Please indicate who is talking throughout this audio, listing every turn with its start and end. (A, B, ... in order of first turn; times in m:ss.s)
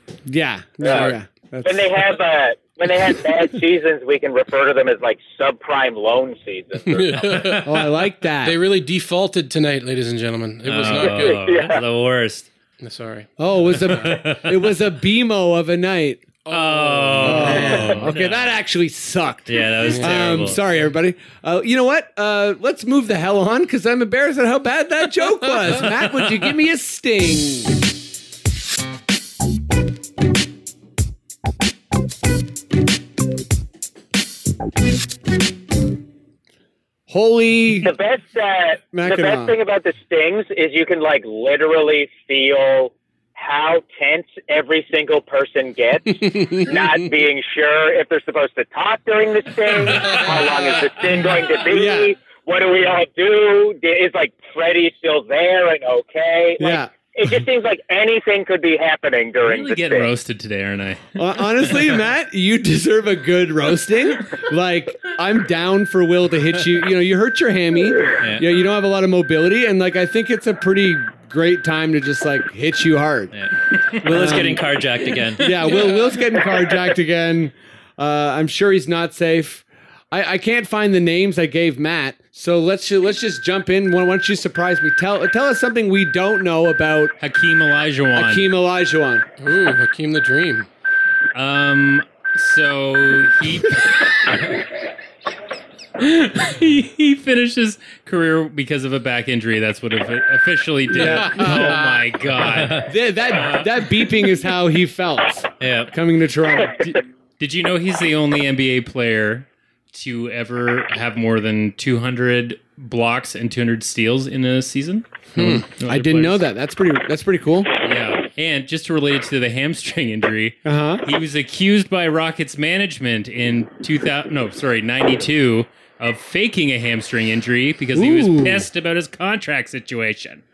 0:00.3-0:02.0 A
0:00.8-0:07.5 B
0:00.9-0:01.2 C
0:06.9-0:07.9 C
0:07.6-0:08.6 A
0:08.4-0:11.4 C
0:10.6-0:12.5 D
0:11.0-0:11.8 B
0:12.8-0:13.3 C
0:13.4-0:16.3 A
0:13.9-0:14.6 D
0:16.5-0:18.1 C
0:16.5-0:18.5 D
0:17.2-0:27.8 A
0:19.5-0:20.6 D
0:19.9-0:20.4 C
0:37.1-0:37.9 A
0:37.8-1:00.1 B
0:38.9-0:39.5 A
0:46.2-0:46.9 C
0:51.7-0:52.1 A
0:56.6-0:56.9 A
0:59.4-1:01.7 E
1:01.2-1:13.3 A
1:08.2-1:08.5 D
1:13.3-1:15.8 D
1:14.0-1:14.6 A
1:15.4-1:27.2 A
1:27.2-1:28.5 E
1:28.2-1:29.2 A
1:29.4-1:30.7 C
1:31.3-1:34.5 E
1:36.0-1:43.8 E
1:40.9-1:42.0 C
1:41.0-1:41.8 A
1:42.5-1:42.9 D
1:42.8-1:47.0 A
1:45.6-1:45.9 D
1:46.9-1:56.4 E
1:55.4-1:55.6 C
1:55.4-1:57.7 A
1:57.8-2:10.4 E
2:00.6-2:01.0 A
2:08.0-2:08.7 A